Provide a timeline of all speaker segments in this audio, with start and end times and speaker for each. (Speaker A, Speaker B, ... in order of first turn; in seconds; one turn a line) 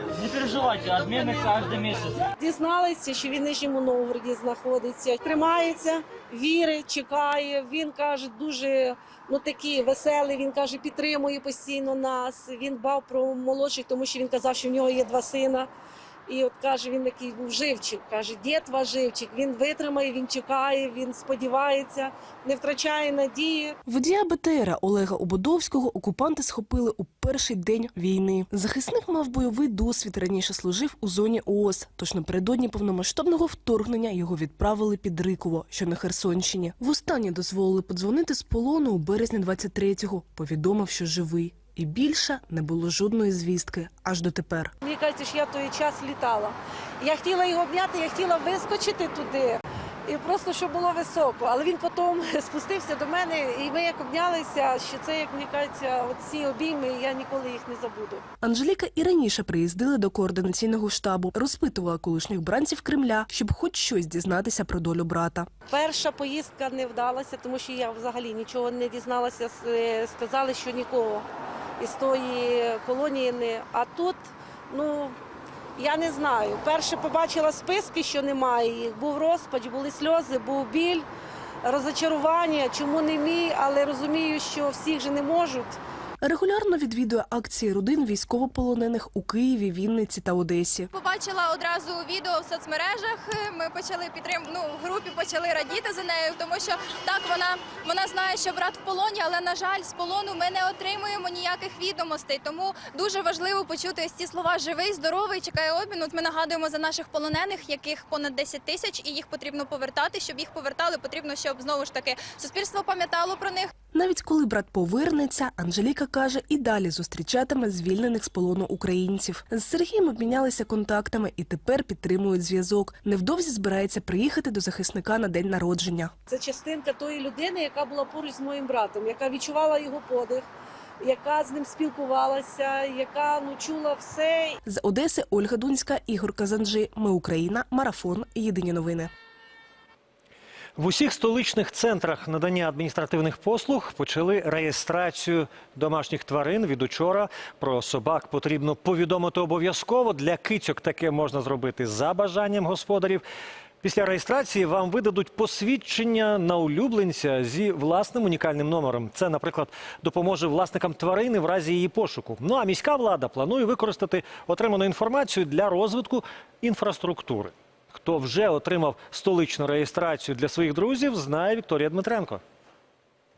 Speaker A: 0.1-2.2
Speaker B: 2.3-15.7
Speaker B: 16.3-23.8
Speaker C: 23.9-44.7
Speaker B: 44.8-58.2
Speaker C: 58.4-65.5
Speaker B: 65.7-71.3
Speaker B: 71.8-75.2
Speaker B: 75.8-81.0
Speaker B: 81.6-85.8
Speaker C: 86.2-90.9
Speaker D: 90.9-113.7
Speaker C: 113.9-126.1
Speaker B: 126.3-130.4
Speaker B: 131.0-134.6
Speaker C: 134.6-139.1
Speaker E: 140.8-153.2
Speaker E: 153.8-172.4